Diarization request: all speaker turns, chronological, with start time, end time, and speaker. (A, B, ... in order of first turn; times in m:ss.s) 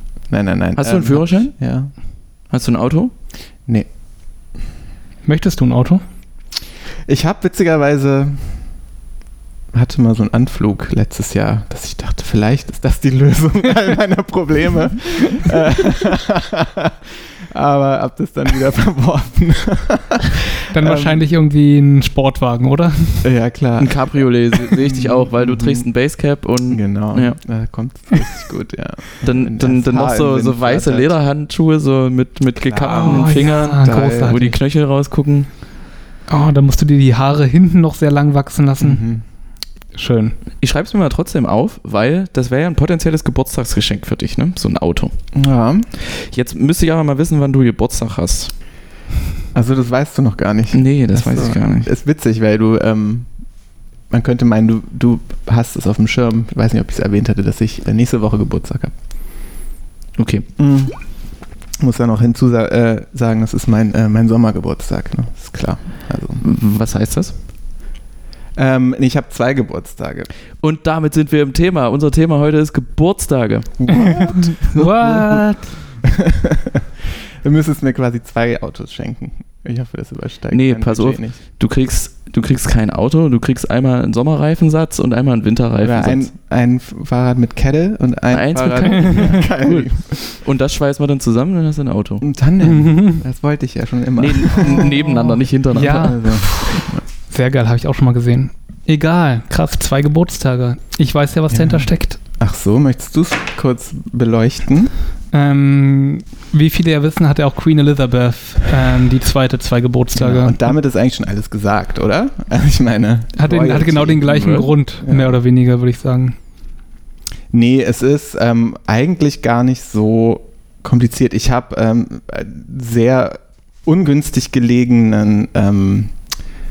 0:00.3-0:01.9 A
0:00.8-0:01.5 B
0:02.5-0:03.1 B
0:05.2-0:06.0 C
0:07.1-0:08.5 A
0:09.7-0:17.0 A
0:17.5-0:21.2 A
0:20.7-0:23.3 C
0:23.2-0:25.9 A
0:23.8-0:27.4 B
0:26.7-0:31.1 A
0:29.2-0:35.5 B
0:32.6-0:34.4 A
0:32.9-0:34.5 C
0:36.3-0:39.0 C
0:38.8-0:39.2 A
0:39.9-0:40.4 C
0:40.6-0:45.1 B
0:45.3-0:45.9 A
0:46.0-0:48.5 B
0:49.5-0:53.3 A
0:50.7-0:51.9 B
0:54.1-0:58.9 A
1:00.2-1:00.4 B
1:00.6-1:01.0 A
1:01.8-1:06.4 A
1:06.4-1:07.4 B
1:08.6-1:10.3 A
1:10.6-1:15.4 B
1:13.8-1:15.1 A
1:14.0-1:15.6 C
1:16.0-1:16.8 A
1:17.4-1:21.4 A
1:20.5-1:26.3 B
1:25.8-1:30.2 A
1:28.3-1:32.2 B
1:29.0-1:29.4 C
1:32.2-1:37.0 A
1:32.7-1:33.1 C
1:34.2-1:36.1 B
1:34.6-1:35.1 C
1:35.7-1:42.2 C
1:41.5-1:44.9 A
1:45.3-1:50.7 C
1:50.1-1:55.4 A
1:53.4-1:56.4 C
1:54.2-1:54.7 B
1:57.5-2:06.1 A